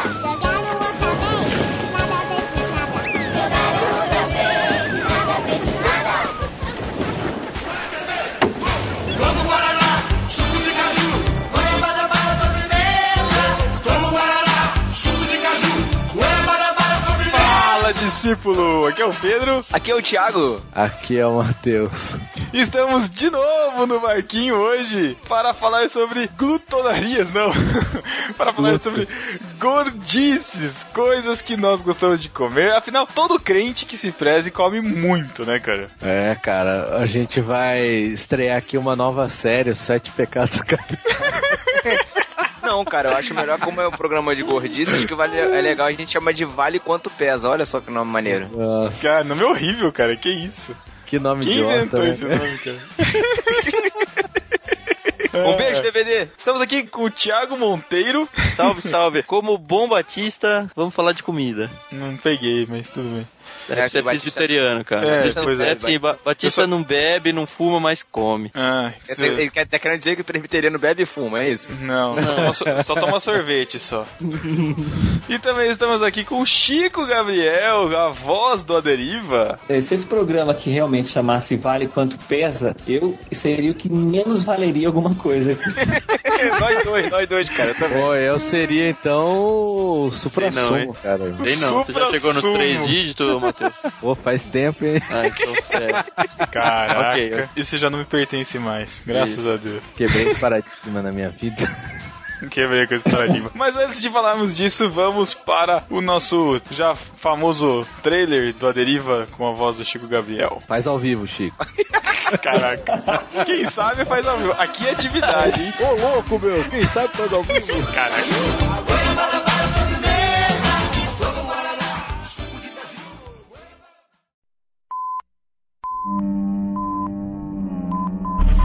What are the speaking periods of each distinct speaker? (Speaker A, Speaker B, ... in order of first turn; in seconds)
Speaker A: 17.2-19.7, 22.5-35.9, 41.3-41.8, 49.0-50.8, 51.4-53.6, 55.3-58.9, 61.9-63.3, 65.0-65.9, 66.4-66.7, 68.5-69.5, 71.7-74.1, 75.3-79.6, 91.4-93.0, 96.5-100.4, 102.4-110.6, 112.3-115.8, 117.9-118.4
Speaker B: 19.7-20.6, 42.6-48.5, 55.4-56.3, 63.7-64.5, 65.0-66.0, 69.1-71.7, 85.9-88.1
Speaker C: 20.7-22.2, 28.6-29.1, 36.0-42.0, 48.3-49.1, 51.1-52.5, 72.2-72.8, 87.9-91.4, 94.0-96.0, 100.0-101.7, 110.7-111.6, 115.7-118.0
Speaker D: 58.5-61.7, 63.7-68.5, 72.2-72.5, 74.3-75.0, 90.3-93.8, 95.1-96.0, 96.9-97.5, 99.1-99.4
Speaker E: 79.7-85.8